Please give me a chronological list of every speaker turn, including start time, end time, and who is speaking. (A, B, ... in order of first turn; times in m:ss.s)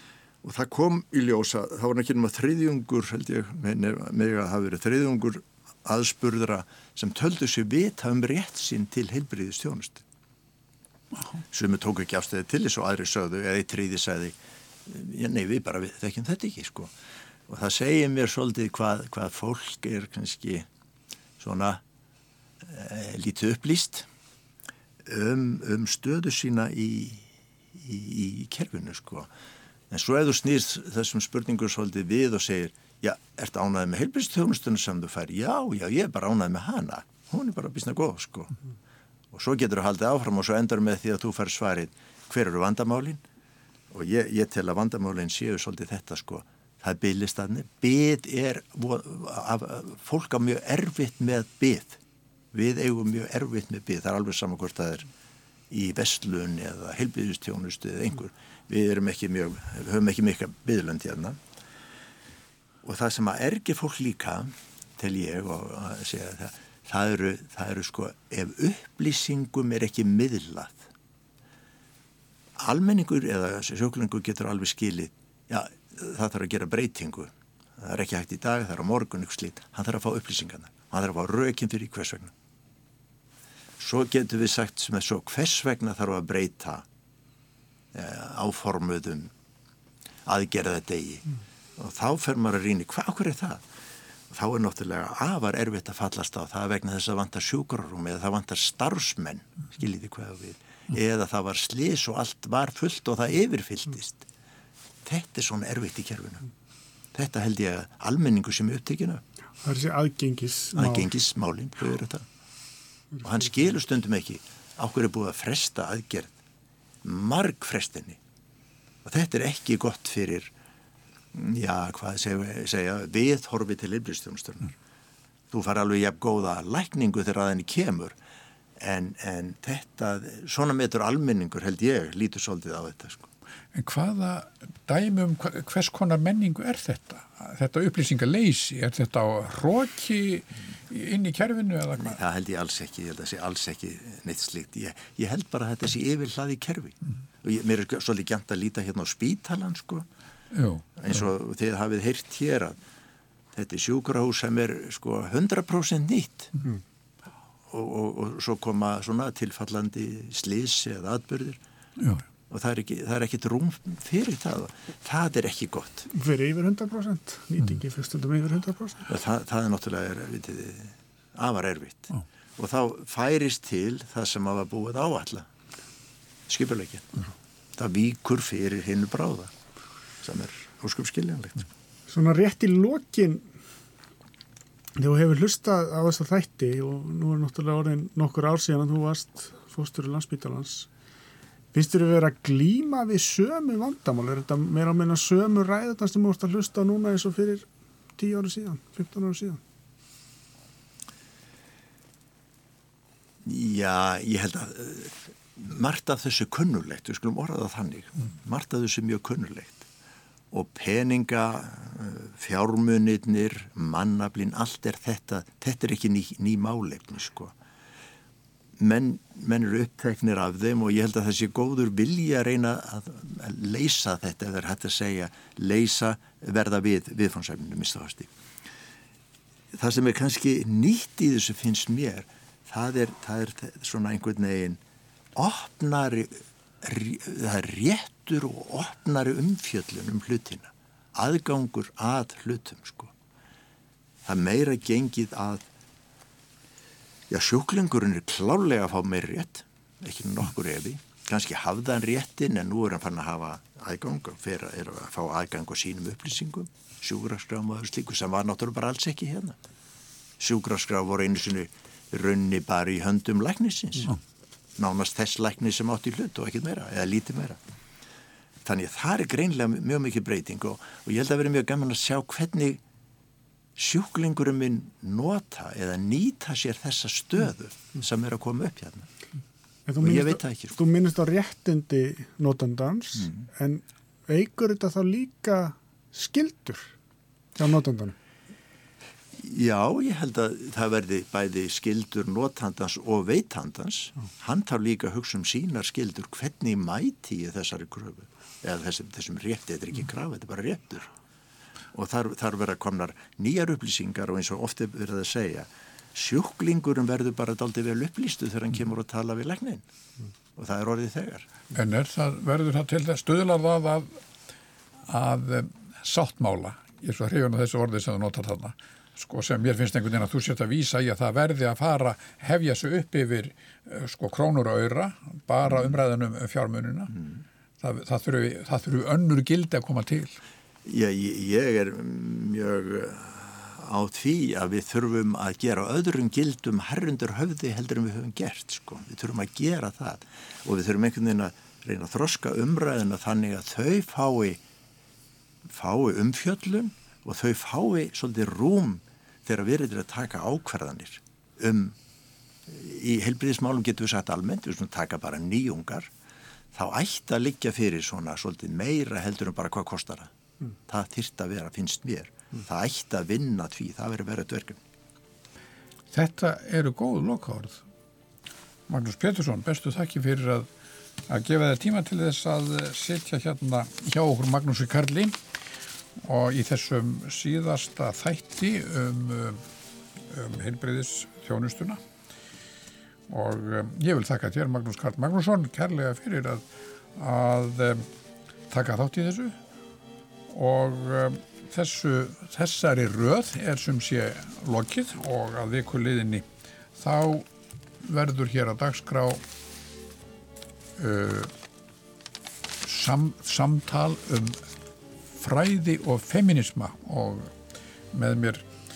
0:00.4-0:10.0 A
0:11.5-0:16.9 A
0:17.5-0:20.7 A
0:21.4-0:21.8 A
0:22.6-0:24.1 A
0:25.0-0:29.3 A
0:29.9-0:38.6 A
0:39.3-0:43.2 A
0:43.9-0:52.0 A
0:52.5-0:55.1 A
0:55.7-1:01.4 A
1:02.8-1:10.9 A
1:12.6-1:22.3 A
1:23.8-1:26.9 A
1:27.9-1:29.3 A
1:30.3-1:33.6 A
1:34.3-1:44.3 A
1:45.0-1:46.5 A
1:47.1-1:49.2 A
1:49.6-1:51.2 B
1:50.8-1:52.3 A
1:53.2-1:56.4 A
1:57.0-1:58.2 A
1:59.0-2:00.5 A
2:01.3-2:04.8 A
2:05.5-2:08.2 A
2:08.8-2:13.3 A
2:13.7-2:22.2 C
2:22.0-2:30.1 A
2:30.5-2:31.0 C
2:31.0-2:32.8 A
2:33.5-2:36.5 A
2:37.7-2:41.6 A
2:42.0-2:42.2 C
2:42.5-2:46.1 A
2:46.1-2:49.1 B
2:49.1-2:55.5 A
2:56.5-2:59.5 A
3:00.2-3:01.7 A
3:02.1-3:03.5 B
3:05.0-3:10.9 B
3:11.7-3:19.6 B
3:23.4-3:29.9 A
3:30.5-3:37.6 A
3:38.8-3:48.3 A
3:49.7-3:54.8 A
3:55.4-4:03.1 A
4:04.2-4:05.7 A
4:07.3-4:19.6 A
4:20.4-4:24.2 A
4:24.8-4:27.6 A
4:28.6-4:32.8 A
4:33.8-4:39.1 A
4:39.9-4:47.0 B
4:40.0-4:40.8 A
4:47.6-4:48.2 B
4:49.4-5:01.1 A
5:01.9-5:09.9 A
5:10.6-5:11.5 A
5:11.8-5:14.2 C
5:15.1-5:27.2 C
5:27.8-5:30.4 C
5:30.8-5:44.6 A
5:45.6-5:52.0 A
5:52.7-5:56.1 A
5:56.7-6:00.3 A
6:00.9-6:04.8 A
6:06.1-6:07.8 C
6:08.9-6:10.7 C
6:11.3-6:15.4 C
6:16.2-6:19.6 C
6:20.3-6:22.0 C
6:23.3-6:26.6 C
6:27.2-6:28.1 C
6:28.7-6:29.6 C
6:30.5-6:36.5 C
6:37.0-6:37.5 C
6:38.0-6:39.4 C
6:41.0-6:41.5 C
6:42.8-6:44.6 C
6:45.4-6:47.5 C
6:48.1-6:48.7 C